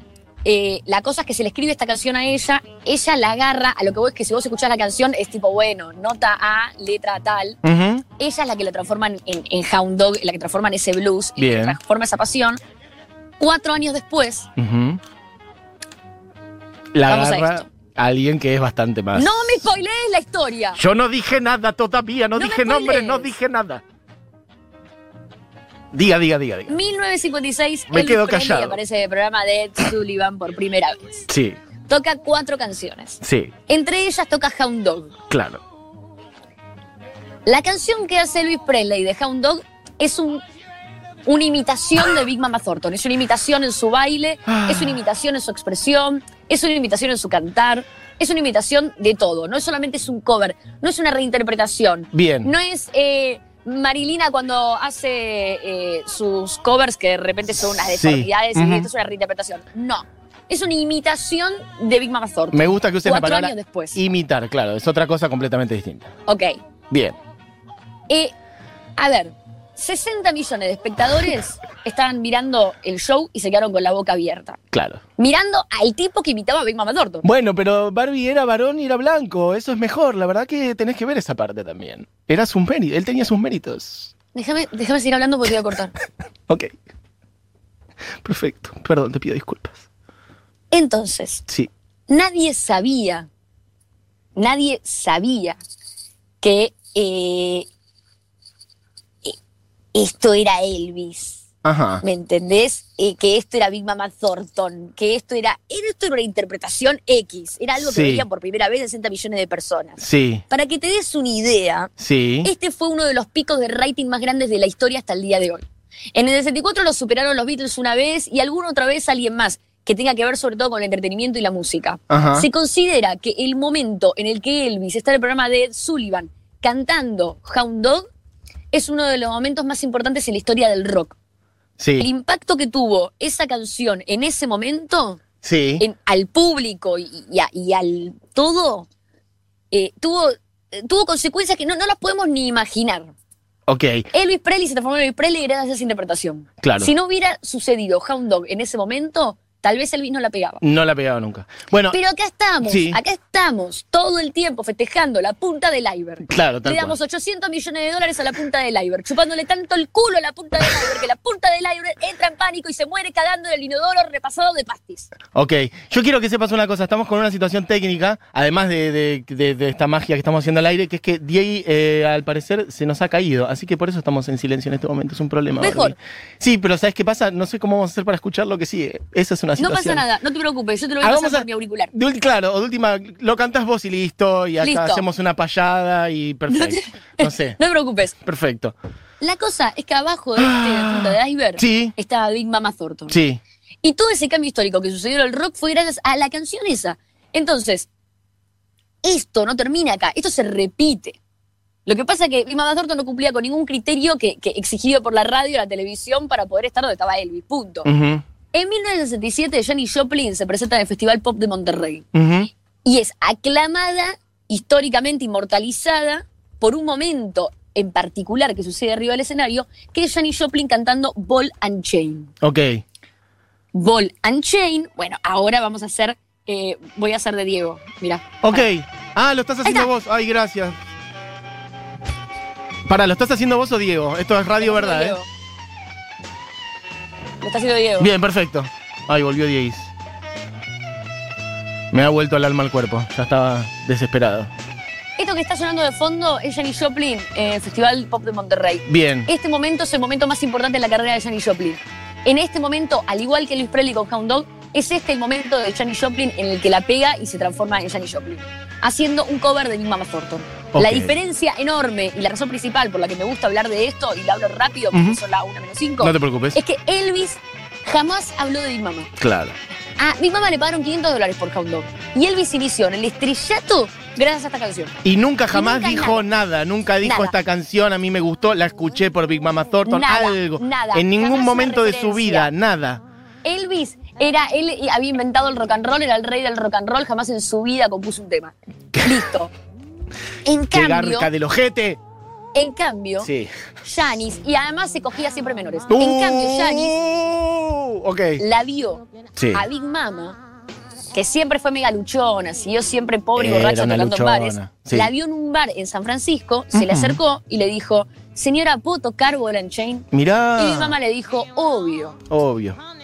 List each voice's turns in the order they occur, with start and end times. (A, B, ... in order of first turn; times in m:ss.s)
0:00.4-0:07.6 A
0:07.6-0:08.0 B
0:08.2-0:12.6 A
0:11.4-0:11.8 B
0:13.4-0:14.5 A
0:14.6-0:15.0 B
0:16.9-0:19.6 B
0:17.1-0:17.7 A
0:19.2-0:20.8 A
0:20.8-0:23.8 B
0:22.4-0:23.3 A
0:25.9-0:26.8 B
0:26.7-0:31.3 A
0:27.9-0:28.8 B
0:31.3-0:31.6 B
0:31.9-0:35.1 A
0:33.2-0:33.5 B
0:35.3-0:35.6 B
0:37.5-0:40.4 A
0:41.3-1:04.0 A
0:44.5-0:45.0 B
0:52.1-0:52.5 B
0:57.6-0:58.9 B
1:02.5-1:06.1 B
1:06.3-1:06.6 A
1:06.9-1:07.2 B
1:09.0-1:14.6 A
1:14.7-1:15.0 B
1:15.2-1:17.2 A
1:17.2-1:24.1 B
1:24.3-1:25.9 A
1:28.2-1:29.8 B
1:30.7-1:31.4 A
1:32.1-1:33.3 A
1:34.4-1:35.6 A
1:36.4-1:37.7 A
1:39.9-1:41.4 A
1:41.6-1:42.0 B
1:42.0-1:51.9 A
1:47.8-1:48.3 B
1:50.0-1:50.4 B
1:52.0-1:52.5 B
1:52.4-2:08.1 A
2:02.1-2:02.5 B
2:08.7-2:11.2 A
2:11.8-2:12.1 B
2:12.0-2:15.2 A
2:15.4-2:15.8 B
2:15.8-2:18.9 A
2:19.7-2:23.1 A
2:23.7-2:24.1 B
2:24.1-2:30.6 A
2:26.6-2:26.9 B
2:30.6-2:32.0 B
2:31.9-2:45.1 A
2:32.6-2:33.0 B
2:36.2-2:37.0 B
2:45.3-3:00.0 B
2:55.6-2:56.0 A
2:59.6-3:01.9 A
3:01.0-3:07.6 B
3:04.6-3:05.0 A
3:06.5-3:08.2 A
3:08.2-3:08.8 B
3:09.2-3:13.2 A
3:10.4-3:12.0 B
3:13.1-3:13.4 B
3:13.8-3:17.9 A
3:19.0-3:21.2 A
3:21.9-3:27.9 A
3:27.8-3:28.2 B
3:28.5-3:32.1 A
3:32.1-3:32.5 B
3:32.8-3:42.3 A
3:42.4-3:42.8 B
3:43.7-3:48.7 A
3:48.4-3:50.8 B
3:49.6-3:49.9 A
3:52.9-3:55.2 B
3:54.6-3:55.3 A
3:57.4-3:58.1 A
3:58.0-3:59.9 B
4:01.9-4:04.5 B
4:05.2-4:29.1 A
4:08.9-4:09.3 B
4:20.7-4:21.1 B
4:24.9-4:25.2 B
4:26.0-4:26.6 B
4:29.2-4:29.6 B
4:30.0-4:35.0 A
4:35.0-4:43.0 B
4:35.5-4:36.3 A
4:37.0-4:37.4 A
4:39.8-4:42.5 A
4:43.4-4:49.5 A
4:50.4-4:51.3 A
4:50.7-4:52.0 B
4:52.5-4:53.3 A
4:53.2-4:53.5 B
4:53.8-4:57.0 A
4:55.9-4:58.4 B
4:58.4-5:00.4 A
4:59.4-4:59.6 B
5:01.1-5:12.2 A
5:03.4-5:05.1 B
5:06.7-5:07.2 B
5:10.1-5:11.0 B
5:12.3-5:12.8 B